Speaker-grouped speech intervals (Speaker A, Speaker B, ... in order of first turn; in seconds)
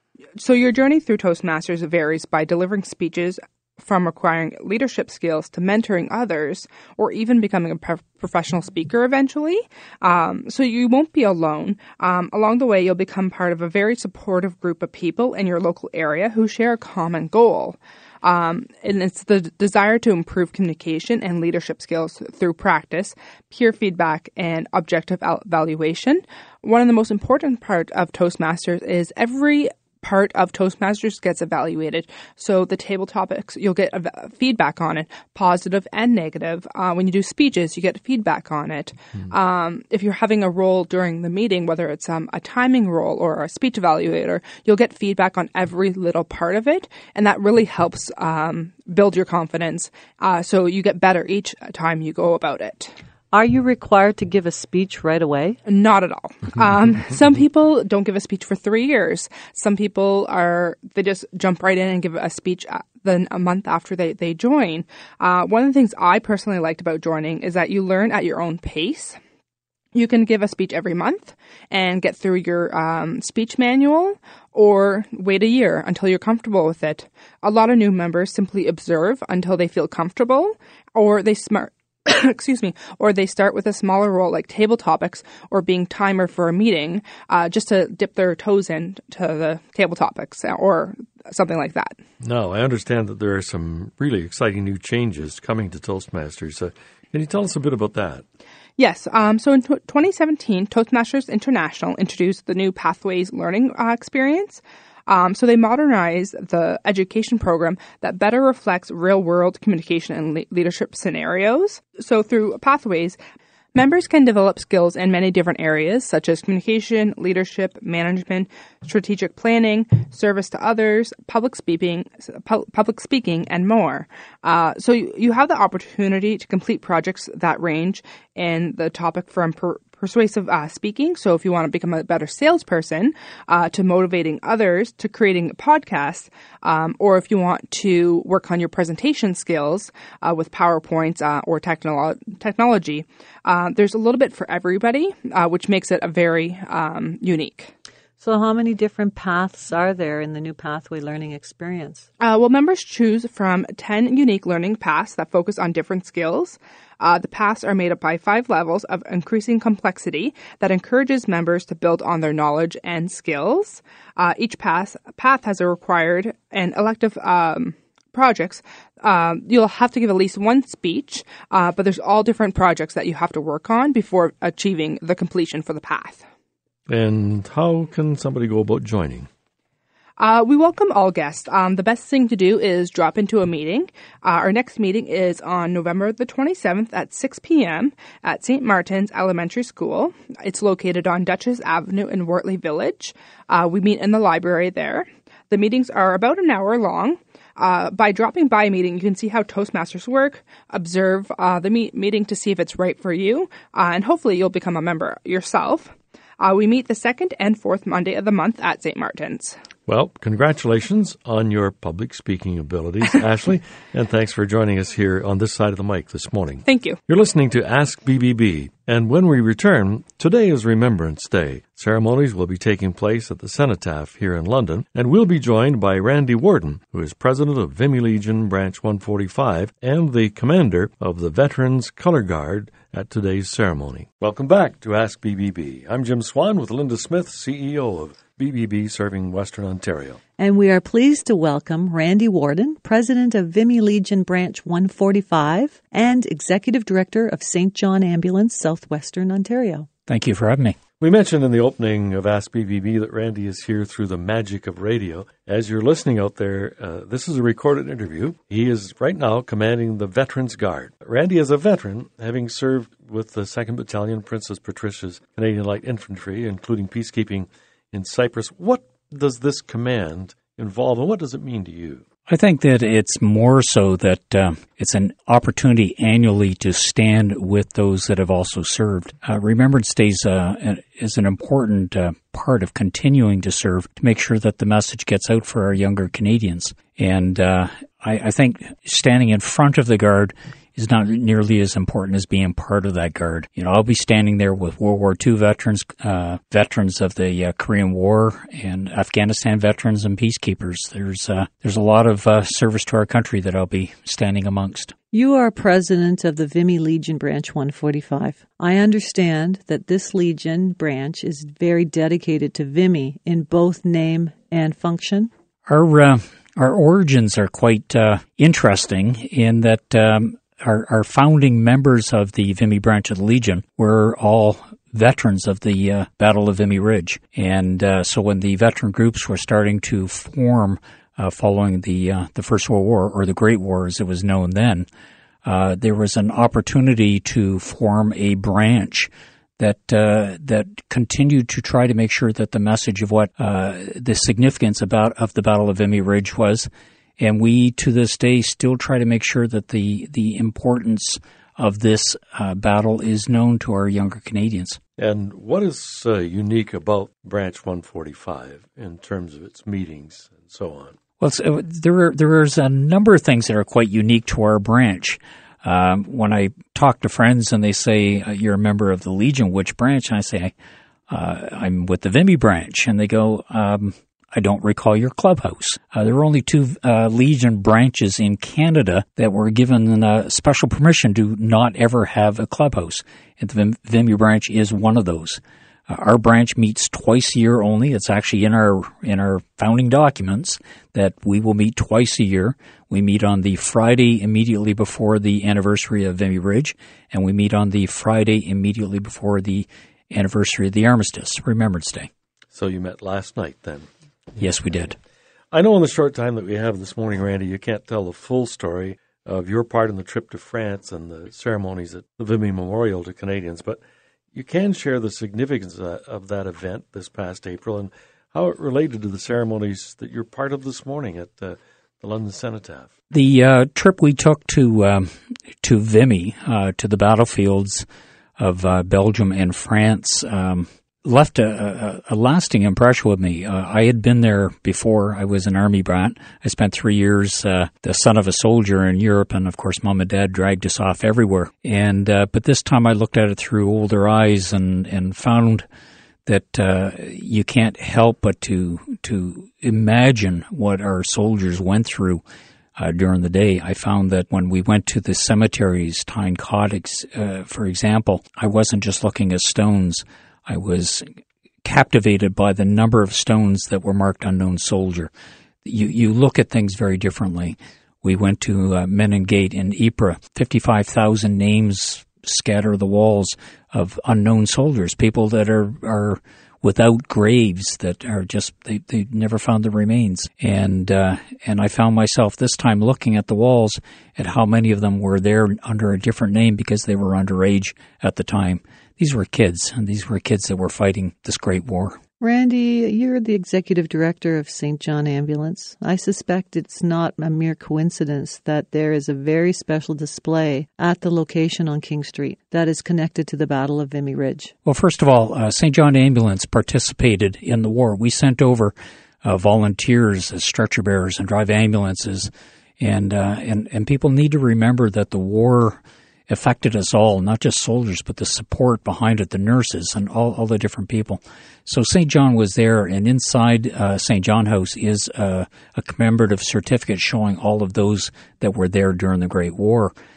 Speaker A: 0.4-53.0, 55.7-69.2, 69.9-92.0, 98.8-113.2, 113.7-147.7, 152.2-176.3, 180.2-209.6, 216.7-217.0
Speaker B: 53.3-55.6, 148.2-152.1, 240.4-249.9, 305.1-315.3, 492.2-504.5
Speaker C: 92.2-98.2, 176.9-179.3, 209.9-240.2, 251.0-272.1, 355.0-361.0, 402.5-403.9, 405.5-413.8, 414.3-422.9
Speaker D: 250.1-250.8, 272.3-304.9, 315.7-334.9, 335.4-354.8, 361.2-370.5, 371.1-402.1, 404.4-405.0, 423.1-425.1, 425.6-427.9, 428.4-445.7, 446.2-452.2, 452.8-461.1, 461.6-465.1, 465.6-492.0, 504.6-529.9